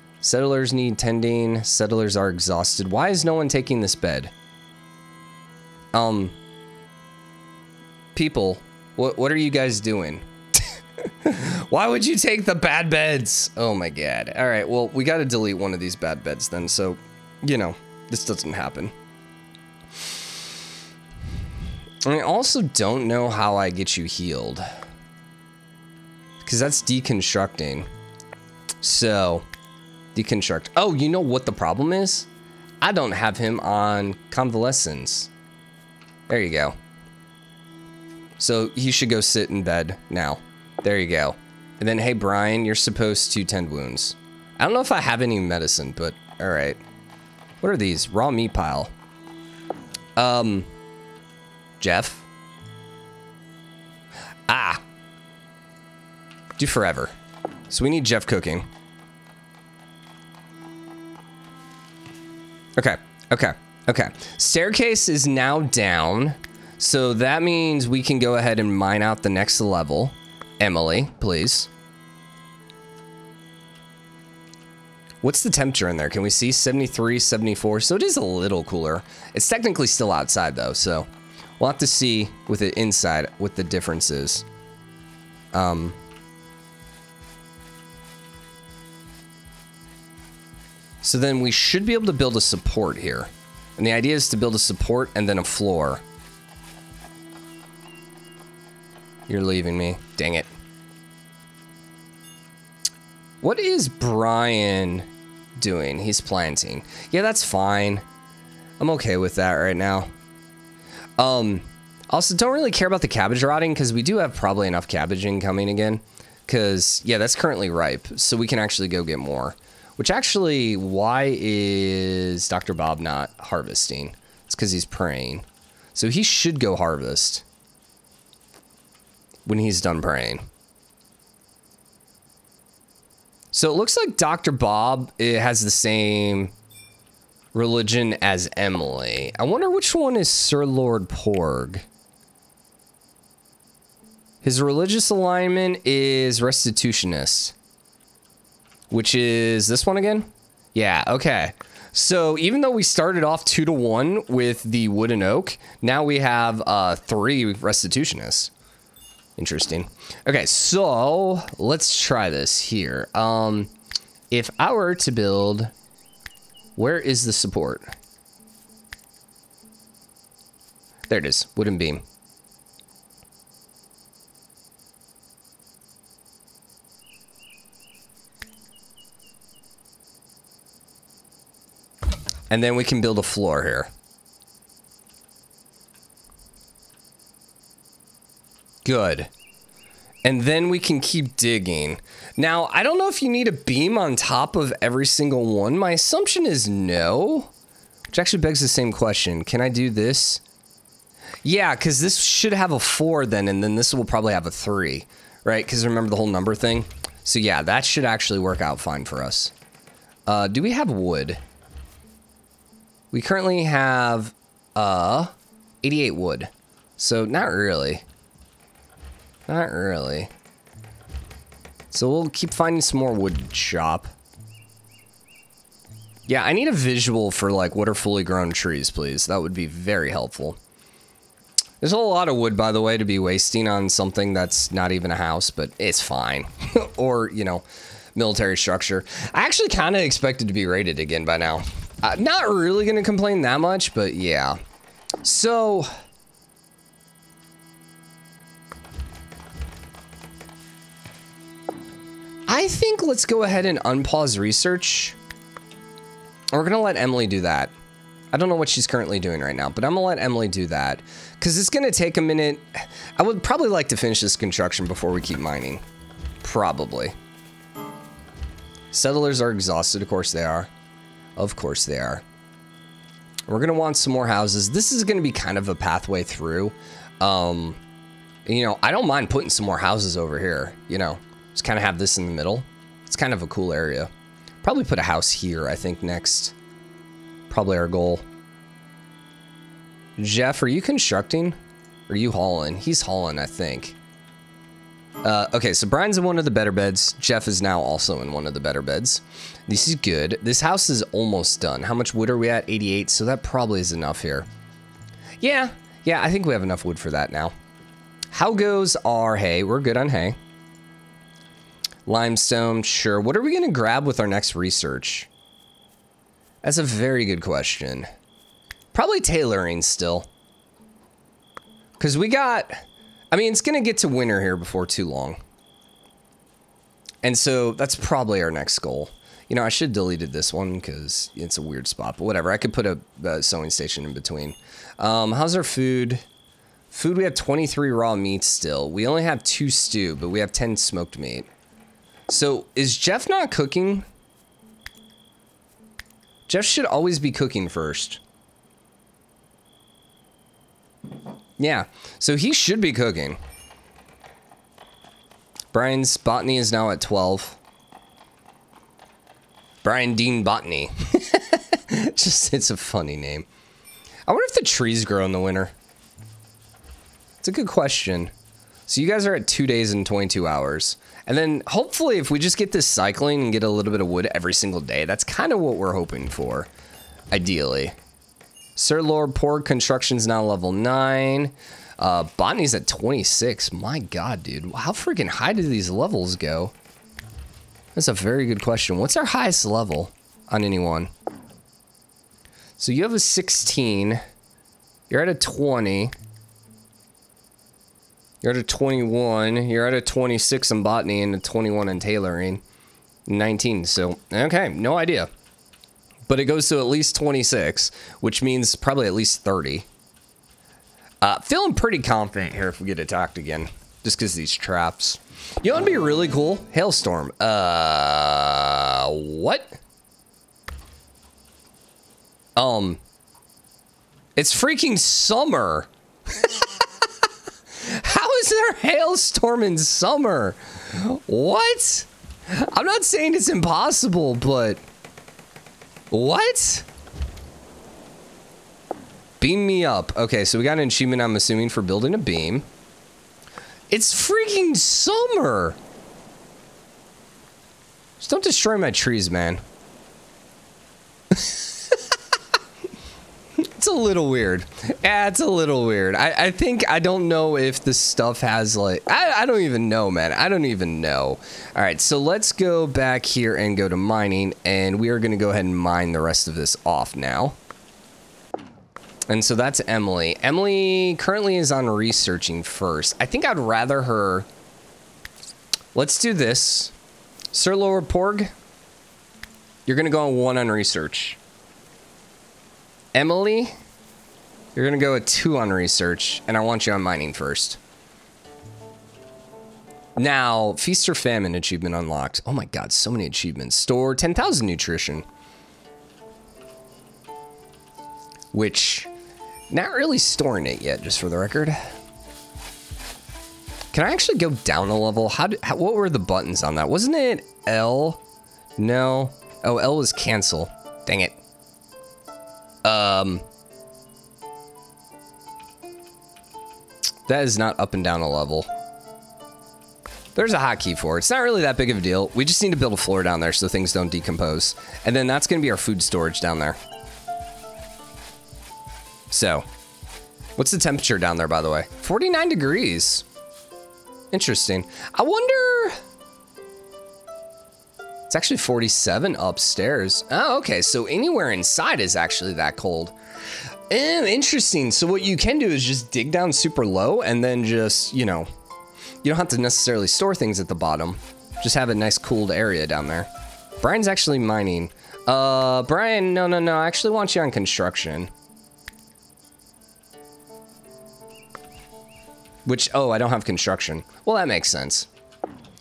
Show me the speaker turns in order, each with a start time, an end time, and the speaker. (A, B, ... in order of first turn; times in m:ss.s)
0:00.2-0:04.3 A
0:05.9-0:06.4 A
0:08.1-0:18.9 A
0:22.0-0:24.6 A
0:26.4-0:27.9 A
0:28.8-0:29.5 A
0:30.1-0:32.3 A
0:32.8-0:35.3 A
0:36.3-0:36.8 A
0:38.4-0:46.8 A
0:47.6-0:48.9 A
0:50.2-0:50.7 A
0:51.8-0:52.3 A
0:54.5-0:54.8 A
0:56.6-0:57.1 A
0:57.7-0:58.7 A
1:02.8-1:11.7 A
1:15.2-1:21.1 A
1:21.6-1:24.5 A
1:25.5-1:26.0 A
1:31.0-1:36.0 A
1:39.3-1:40.5 A
1:43.4-1:48.0 A
1:48.8-1:50.1 A
1:51.2-2:07.4 A
2:09.5-2:10.4 A
2:13.5-2:16.5 A
2:17.5-2:21.8 A
2:24.4-2:27.5 A
2:28.9-2:38.5 A
2:39.4-2:43.7 A
2:44.3-2:45.7 A
2:46.8-2:47.9 A
2:51.1-2:52.0 A
3:02.5-3:03.9 A
3:08.8-3:09.3 A
3:10.2-3:17.5 A
3:18.1-3:20.4 A
3:21.4-3:29.5 A
3:30.3-3:31.4 A
3:33.1-3:38.0 A
3:39.5-3:40.3 A
3:41.9-3:44.1 A
3:46.3-3:50.6 A
3:51.8-4:04.6 A
4:05.2-4:05.9 A
4:12.5-4:15.2 A
4:16.5-4:17.7 A
4:18.3-4:25.8 A
4:26.4-4:27.1 A
4:28.9-4:30.7 A
4:31.4-4:32.2 A
4:33.5-4:37.8 A
4:38.5-4:44.1 A
4:44.6-4:46.5 A
4:47.5-4:48.2 A
4:50.2-4:51.6 A
4:52.1-4:54.0 A
4:55.2-5:04.5 A
5:05.4-5:07.5 A
5:08.3-5:10.4 A
5:12.0-5:15.3 A
5:16.6-5:18.1 A
5:18.9-5:20.3 A
5:22.0-5:22.8 A
5:23.3-5:25.4 A
5:27.2-5:36.2 A
5:36.9-5:41.5 A
5:42.3-5:44.1 A
5:46.5-5:48.2 A
5:51.6-5:53.4 A
5:55.7-5:57.6 A
5:59.8-6:03.5 A
6:04.3-6:05.7 A
6:07.4-6:08.3 A
6:08.9-6:16.7 A
6:17.3-6:17.9 A
6:18.8-6:26.7 A
6:27.9-6:31.1 A
6:32.8-6:34.2 A
6:35.1-6:36.1 A
6:38.4-6:42.6 A
6:43.3-6:45.3 A
6:46.3-6:49.9 A
6:51.2-6:59.8 A
7:02.6-7:03.0 A
7:04.4-7:07.0 A
7:07.8-7:14.8 A
7:16.1-7:16.9 A
7:19.4-7:22.6 A
7:23.9-7:25.8 A
7:28.2-7:29.6 A
7:31.3-7:32.1 A
7:33.6-7:47.6 A
7:49.3-7:54.5 A
7:55.9-7:56.9 A
7:57.5-7:58.5 A
7:59.9-8:01.4 A
8:03.1-8:03.7 A
8:04.8-8:07.8 A
8:10.2-8:15.2 A
8:18.5-8:19.1 A
8:19.7-8:21.8 A
8:23.9-8:28.2 A
8:28.8-8:31.4 A
8:32.8-8:33.4 A
8:37.3-8:38.7 A
8:40.3-8:46.8 A
8:49.3-8:49.7 A
8:50.6-8:53.2 A
8:54.3-8:56.0 A
8:58.3-9:03.2 A
9:03.9-9:08.5 A
9:09.2-9:13.3 A
9:13.8-9:18.3 A
9:22.6-9:25.1 A